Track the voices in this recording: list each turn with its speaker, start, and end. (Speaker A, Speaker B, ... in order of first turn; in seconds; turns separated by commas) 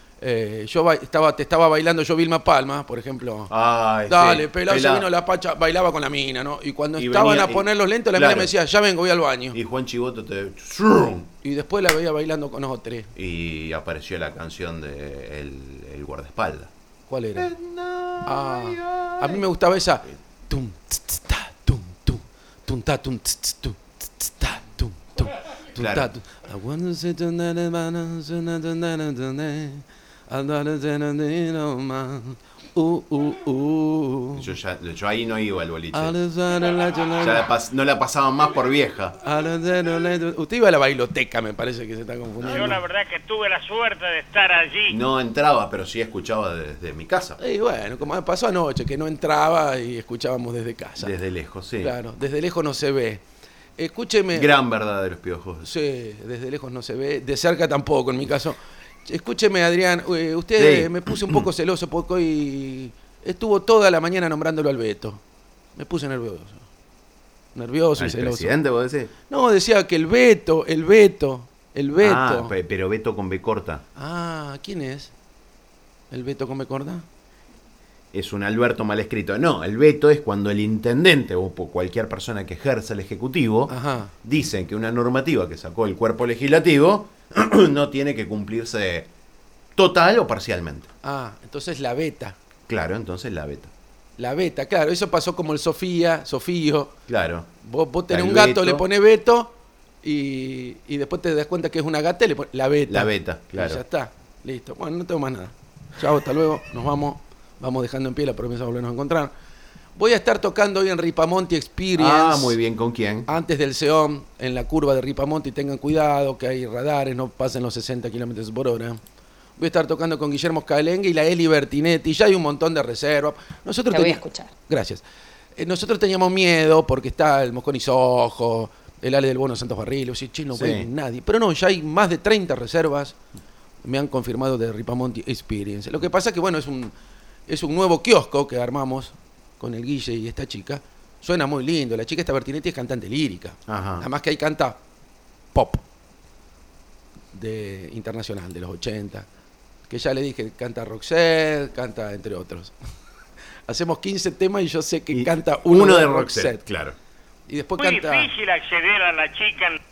Speaker A: 0.2-3.5, Speaker B: 3.5-5.1, Speaker A: 4.1-9.6, Speaker B: 7.0-8.5, Speaker B: 9.5-11.3, Speaker A: 11.4-13.1, Speaker B: 13.2-16.7, Speaker A: 17.1-17.5, Speaker B: 17.4-19.5, Speaker A: 18.2-34.5, Speaker B: 25.8-26.1, Speaker B: 34.4-36.2, Speaker A: 35.9-37.5, Speaker B: 37.2-39.2, Speaker A: 39.2-42.8, Speaker C: 42.4-45.0, Speaker B: 44.9-47.4, Speaker A: 47.4-51.1, Speaker B: 51.0-51.9, Speaker A: 51.8-53.2, Speaker A: 53.8-54.5, Speaker B: 54.3-55.7, Speaker A: 55.6-65.2, Speaker B: 60.6-61.5, Speaker A: 65.8-66.7, Speaker A: 67.5-68.5, Speaker B: 68.0-69.1, Speaker A: 69.3-72.5, Speaker B: 72.0-73.8, Speaker A: 74.0-75.1, Speaker A: 76.1-77.0, Speaker B: 78.1-89.1, Speaker A: 83.7-84.1, Speaker B: 89.8-90.9, Speaker A: 91.0-92.4, Speaker B: 92.7-93.7, Speaker A: 94.2-97.0, Speaker B: 97.1-97.5, Speaker A: 97.6-109.3, Speaker B: 98.1-98.9, Speaker B: 102.9-103.8, Speaker A: 110.0-112.6, Speaker B: 112.0-113.3, Speaker A: 113.3-119.0, Speaker A: 119.6-125.0, Speaker A: 125.6-133.2, Speaker B: 130.5-130.9, Speaker A: 133.8-136.9, Speaker A: 137.5-144.8, Speaker B: 143.7-144.1, Speaker A: 145.5-145.8, Speaker A: 147.3-149.3, Speaker A: 149.9-152.7, Speaker A: 153.7-156.6, Speaker B: 155.1-157.0, Speaker A: 157.5-158.3, Speaker C: 157.8-159.8